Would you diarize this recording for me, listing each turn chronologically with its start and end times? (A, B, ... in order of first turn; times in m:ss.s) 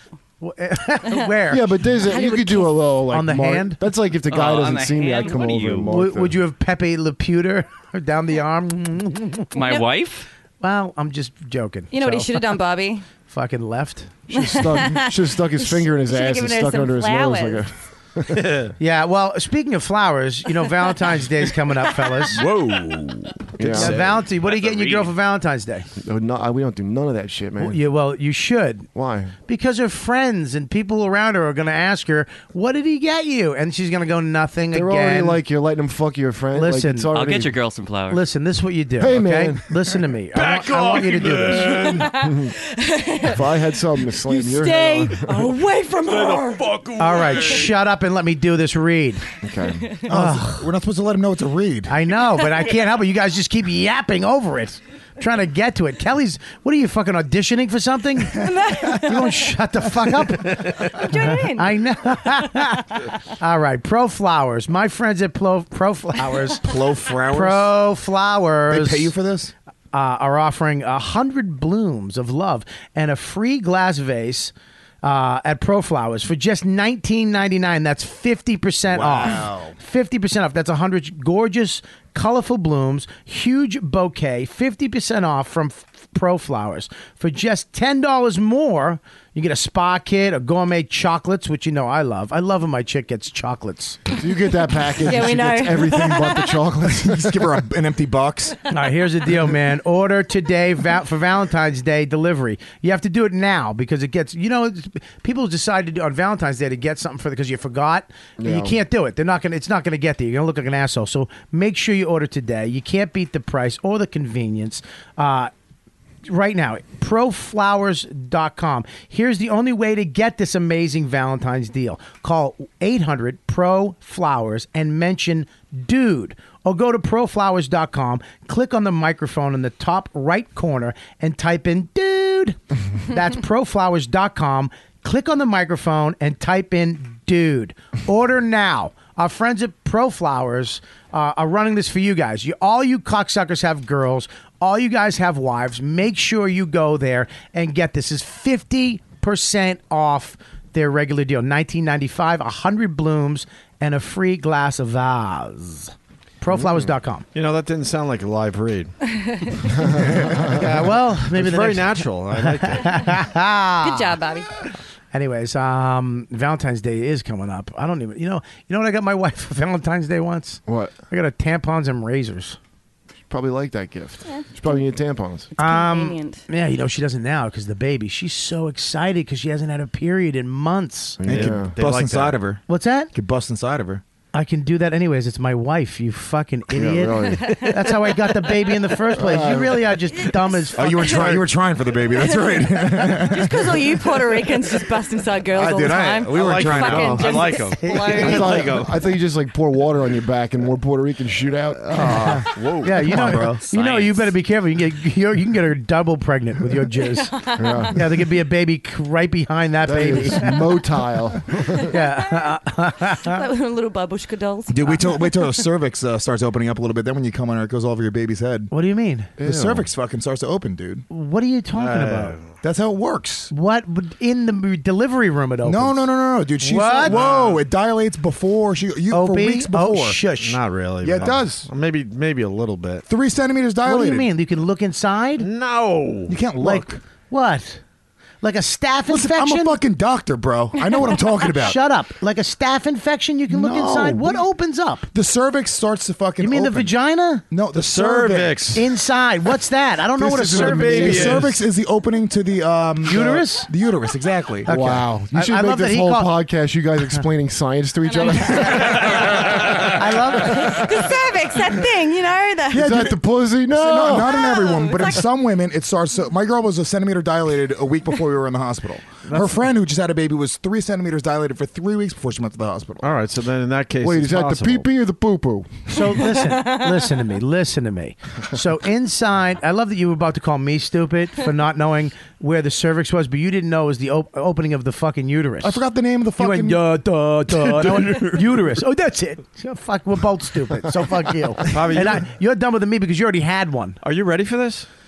0:00.4-0:01.6 A
0:01.5-0:06.4 B
0:02.0-0:02.8 C
0:03.1-0:03.8 A
0:04.3-0:05.9 D
0:05.9-0:09.5 A
0:09.5-0:10.2 D
0:09.6-0:09.8 C
0:10.6-0:12.3 A
0:11.9-0:13.0 C
0:13.2-0:14.7 A
0:14.3-0:17.7 C
0:14.4-0:18.6 B
0:18.3-0:18.7 E
0:18.8-0:22.4 A
0:22.3-0:24.2 E
0:23.6-0:24.1 B
0:23.7-0:25.9 A
0:24.4-0:25.1 D
0:26.0-0:27.8 B
0:27.6-0:28.9 A
0:28.9-0:29.3 B
0:29.5-0:35.4 A
0:34.7-0:37.6 B
0:36.5-0:37.1 A
0:37.1-0:38.2 D
0:38.1-0:42.0 A
0:39.0-0:39.8 B
0:40.3-0:42.1 E
0:41.7-0:43.4 C
0:42.1-0:42.5 B
0:43.2-0:45.4 B
0:44.2-0:46.7 C
0:46.1-0:47.4 E
0:47.0-0:49.2 A
0:49.4-0:49.9 B
0:50.0-0:52.0 F
0:50.1-0:50.7 A
0:51.9-1:06.6 A
0:58.3-0:59.5 C
1:00.8-1:01.8 C
1:06.6-1:07.7 F
1:07.3-1:09.1 A
1:08.7-1:09.5 F
1:09.9-1:34.0 A
1:18.9-1:19.7 F
1:34.1-1:37.5 B
1:34.9-1:36.6 C
1:36.8-1:38.6 F
1:38.7-1:55.5 A
1:48.4-1:48.8 B
1:56.2-2:37.2 A
2:36.5-2:36.9 B
2:37.3-2:38.9 E
2:39.2-2:39.6 C
2:39.8-2:40.5 B
2:40.4-2:44.1 A
2:40.4-2:40.7 E
2:41.3-2:43.2 E
2:43.8-2:44.5 C
2:45.1-2:52.6 A
2:50.7-2:50.9 B
2:53.3-2:55.5 B
2:55.5-2:56.4 C
2:55.6-3:01.2 A
3:01.2-3:01.7 B
3:01.2-3:04.0 F
3:01.3-3:02.4 E
3:02.7-3:03.1 A
3:04.3-3:11.4 A
3:06.7-3:07.7 B
3:07.3-3:08.8 C
3:09.1-3:10.0 B
3:10.6-3:11.3 C
3:10.8-3:14.0 F
3:12.1-3:18.6 C
3:15.5-3:17.5 F
3:16.2-3:19.0 E
3:17.8-3:18.4 A
3:18.1-3:23.4 B
3:21.9-3:22.3 F
3:21.9-3:27.3 A
3:22.4-3:23.4 E
3:23.0-3:23.6 F
3:23.6-3:24.3 D
3:27.1-3:27.9 C
3:27.6-3:28.0 B
3:27.9-3:30.7 A
3:29.8-3:31.9 B
3:31.9-3:33.4 A
3:31.9-3:32.5 C
3:33.0-3:35.5 C
3:34.7-3:38.7 F
3:38.7-3:39.3 A
3:39.4-3:39.9 B
3:39.4-3:41.0 F
3:41.1-3:42.4 A
3:41.7-3:42.5 E
3:42.6-3:43.5 F
3:43.5-3:46.1 A
3:45.6-3:50.2 F
3:46.6-3:47.2 A
3:47.0-3:47.6 E
3:49.1-3:50.6 A
3:50.4-3:53.0 E
3:51.0-3:51.7 F
3:53.1-3:54.3 F
3:53.8-3:55.5 A
3:55.4-3:56.4 E
3:56.3-3:57.0 F
3:56.6-3:57.8 A
3:58.4-3:59.8 A
3:59.1-4:01.8 F
4:01.6-4:05.1 A
4:03.5-4:04.5 F
4:05.1-4:06.9 F
4:06.4-4:07.4 A
4:07.5-4:08.7 F
4:07.7-4:08.8 E
4:08.7-4:11.4 A
4:10.2-4:11.4 B
4:10.2-4:14.7 F
4:10.5-4:11.5 E
4:13.0-4:13.7 A
4:14.6-4:16.3 A
4:14.7-4:19.9 B
4:18.1-4:19.4 C
4:18.6-4:18.9 A
4:19.9-4:20.8 A
4:20.3-4:22.9 C
4:22.7-4:24.3 B
4:22.7-4:33.1 F
4:24.2-4:25.2 C
4:33.0-4:34.9 E
4:34.0-4:36.0 B
4:35.9-4:45.8 A
4:36.5-4:36.9 C
4:45.6-4:46.8 F
4:46.4-4:54.0 A
4:47.8-4:48.4 E
4:51.7-4:52.2 E
4:54.0-4:54.9 E